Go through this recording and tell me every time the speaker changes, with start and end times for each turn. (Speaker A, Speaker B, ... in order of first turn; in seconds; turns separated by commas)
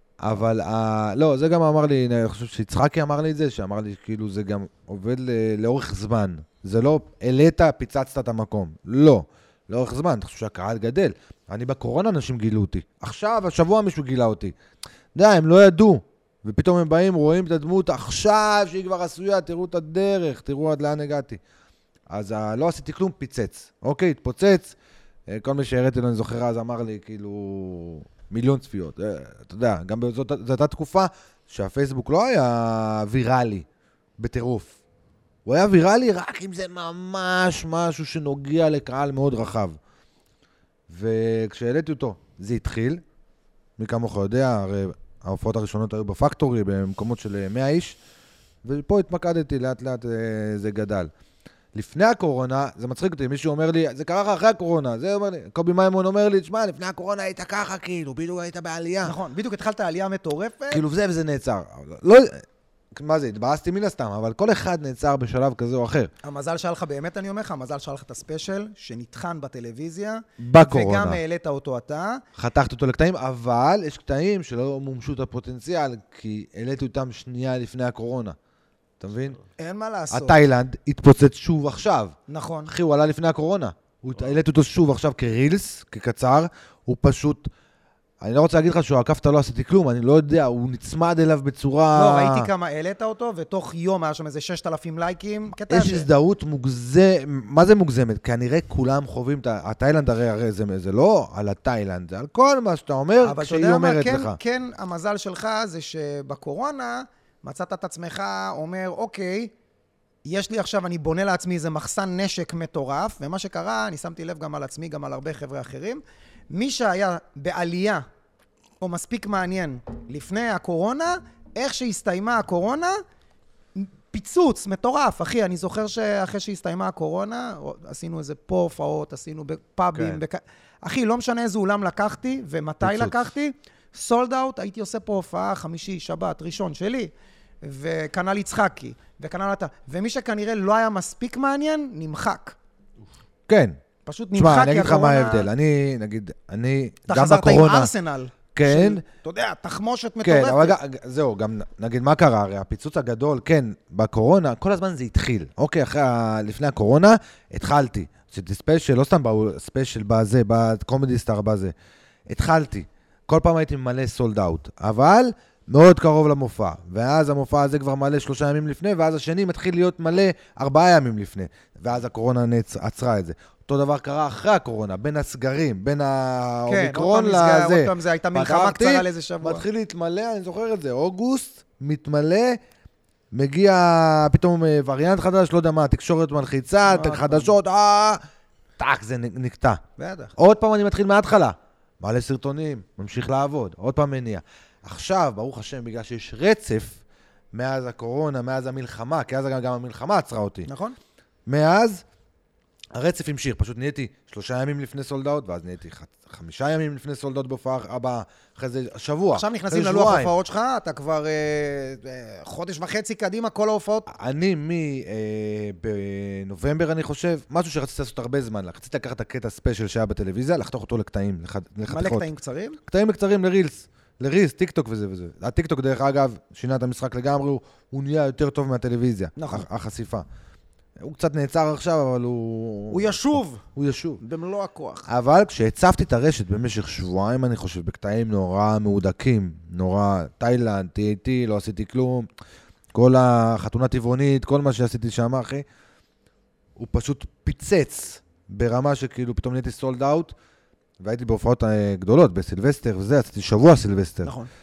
Speaker A: 0.2-14.5, Speaker A: 15.1-21.4, Speaker A: 22.1-24.7, Speaker A: 25.3-33.6, Speaker A: 34.2-34.8, Speaker A: 35.5-39.8, Speaker A: 40.9-43.0, Speaker A: 43.8-48.0, Speaker A: 48.6-51.1, Speaker A: 51.7-59.1, Speaker B: 59.0-60.8, Speaker A: 60.7-66.1, Speaker B: 66.2-72.2, Speaker A: 70.4-71.2, Speaker A: 72.3-78.3, Speaker A: 79.0-79.4, Speaker B: 79.6-80.4, Speaker A: 80.1-87.5, Speaker B: 82.3-82.7, Speaker A: 88.2-92.5, Speaker B: 91.9-96.1, Speaker A: 95.7-104.4, Speaker B: 103.2-109.5, Speaker B: 110.2-118.0, Speaker B: 118.8-123.0, Speaker B: 123.8-137.1, Speaker A: 129.9-130.2, Speaker A: 132.8-133.2, Speaker B: 137.6-142.6, Speaker A: 143.5-143.8, Speaker B: 144.1-145.5, Speaker A: 144.3-147.9, Speaker B: 147.1-150.8, Speaker A: 148.5-149.0, Speaker A: 150.2-161.7, Speaker A: 162.3-182.6, Speaker B: 176.7-179.6, Speaker A: 183.3-188.2, Speaker B: 186.9-187.6, Speaker A: 188.8-189.8, Speaker B: 190.0-190.3, Speaker A: 190.3-197.0, Speaker A: 197.5-200.7, Speaker B: 200.7-200.9, Speaker A: 201.5-202.0, Speaker A: 202.9-210.3, Speaker B: 209.3-214.1, Speaker A: 214.1-222.3, Speaker B: 221.9-222.8, Speaker A: 222.8-230.2, Speaker B: 229.3-229.7, Speaker A: 231.0-234.2, Speaker B: 232.9-233.6, Speaker B: 234.2-235.1, Speaker A: 235.1-242.3, Speaker A: 242.9-245.6, Speaker A: 246.8-250.3, Speaker A: 251.0-254.3, Speaker B: 254.2-254.5